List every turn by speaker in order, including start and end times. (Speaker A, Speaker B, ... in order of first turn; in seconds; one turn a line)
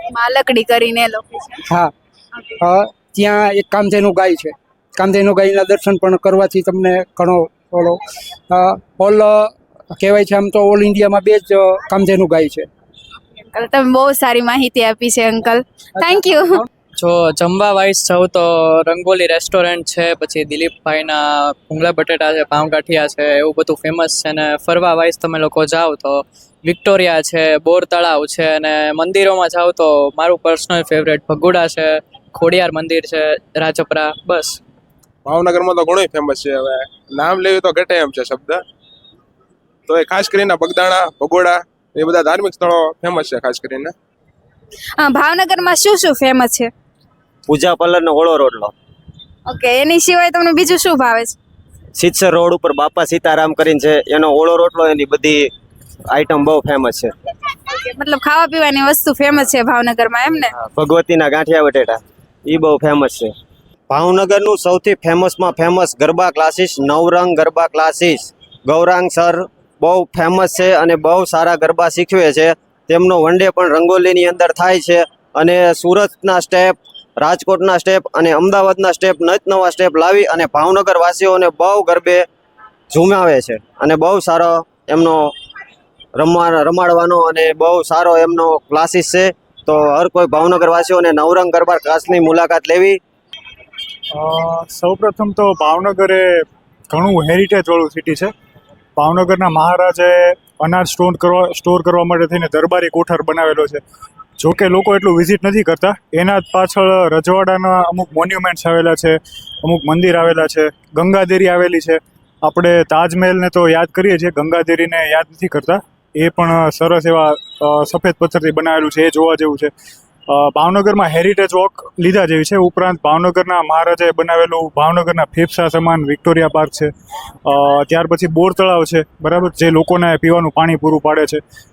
Speaker A: 0.1-1.6
Speaker B: 2.6-12.7
Speaker A: 13.5-16.6
Speaker B: 16.0-16.6
Speaker C: 17.0-34.6
Speaker D: 35.2-38.6
Speaker D: 39.9-43.9
Speaker A: 45.0-46.7
Speaker E: 47.5-48.7
Speaker A: 49.5-51.3
Speaker E: 52.0-55.5
Speaker E: 56.1-57.1
Speaker A: 57.7-60.5
Speaker E: 60.7-63.3
Speaker E: 63.9-82.2
Speaker E: 82.9-85.3
Speaker E: 86.2-93.0
Speaker F: 94.1-98.3
Speaker F: 99.0-103.8
Speaker F: 104.4-119.7
Speaker F: 120.3-126.9
Speaker F: 127.4-131.4